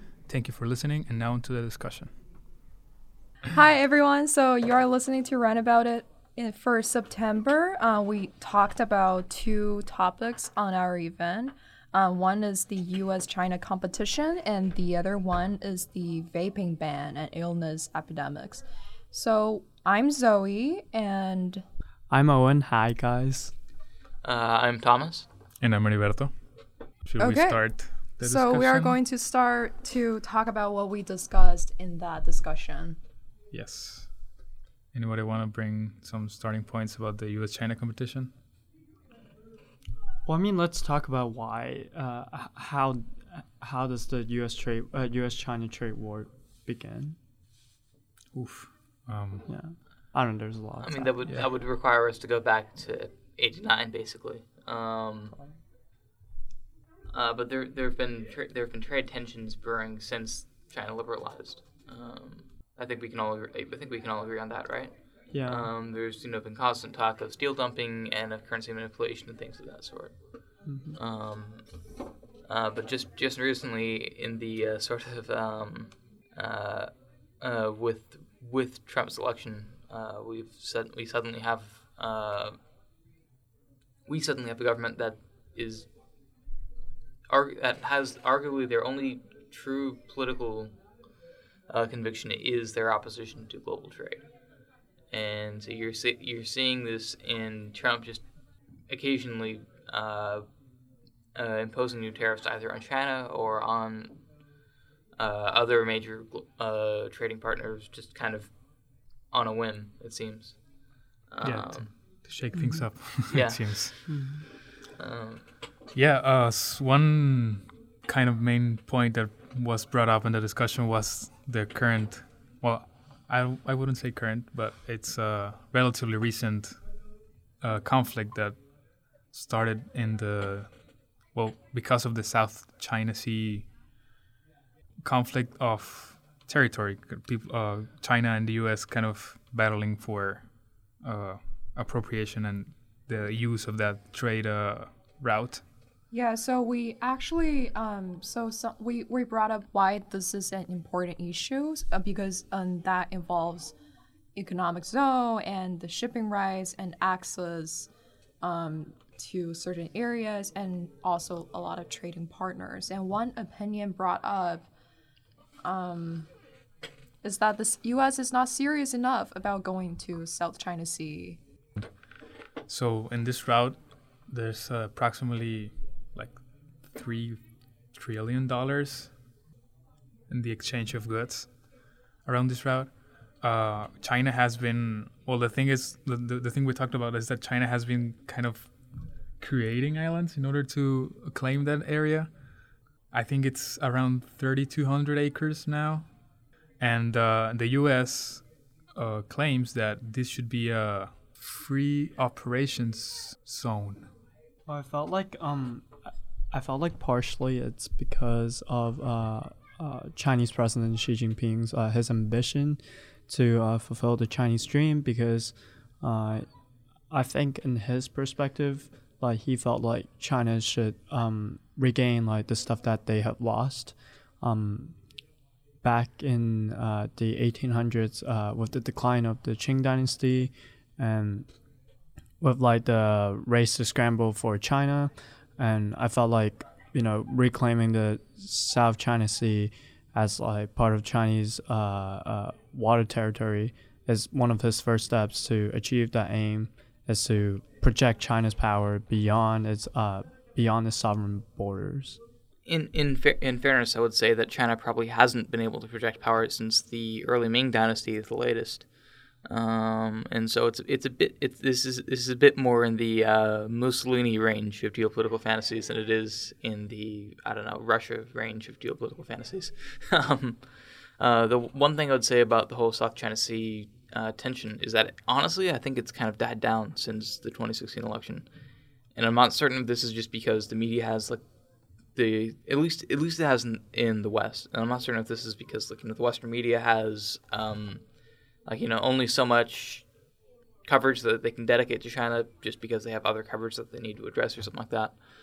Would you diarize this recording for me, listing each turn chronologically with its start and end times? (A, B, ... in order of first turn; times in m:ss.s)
0:00.3-0:02.1 A
0:03.5-0:21.6 B
0:22.1-0:23.5 C
0:24.2-0:25.3 D
0:25.6-0:26.3 A
0:27.0-0:29.0 A
0:27.2-0:27.6 B
0:28.2-0:33.0 B
0:33.5-0:34.1 A
0:34.9-0:38.3 A
0:40.2-0:47.2 C
0:48.3-0:49.5 A
0:49.5-0:51.1 C
0:50.8-0:55.3 D
0:57.1-1:04.9 D
1:05.3-1:05.7 C
1:05.4-1:10.1 D
1:10.6-1:11.0 C
1:11.0-1:11.6 D
1:12.5-1:22.6 D
1:24.1-1:25.9 D
1:27.3-1:30.7 D
1:31.7-1:34.2 D
1:35.1-1:38.2 D
1:38.9-1:40.4 D
1:41.3-1:44.2 D
1:45.2-1:48.5 D
1:49.3-1:50.6 D
1:51.3-1:51.9 D
1:51.4-1:53.9 A
1:52.5-1:52.8 C
1:53.3-1:54.1 D
1:54.1-1:54.4 C
1:55.0-1:55.4 D
1:55.9-2:06.8 A
2:07.6-2:08.6 A
2:09.3-2:10.7 A
2:11.3-2:13.7 A
2:15.0-2:20.4 A
2:21.0-2:25.6 A
2:26.1-2:33.7 B
2:34.3-2:37.9 B
2:38.4-2:44.6 B
2:45.6-2:46.3 B
2:47.2-2:51.4 B
2:52.7-2:56.4 A
2:56.9-2:57.4 A
2:57.9-2:59.1 A
3:00.3-3:01.5 A
3:02.2-3:02.9 A
3:03.4-3:08.7 A
3:09.4-3:12.3 A
3:13.1-3:16.0 A
3:16.8-3:24.1 A
3:24.7-3:25.9 C
3:26.5-3:36.4 C
3:37.1-3:44.9 C
3:45.8-3:51.5 C
3:52.4-4:12.2 C
4:12.6-4:18.8 D
4:19.4-4:30.6 D
4:31.2-4:38.4 D
4:39.1-4:41.4 D
4:42.1-4:48.0 D
4:48.6-4:50.0 D
4:50.8-4:55.1 D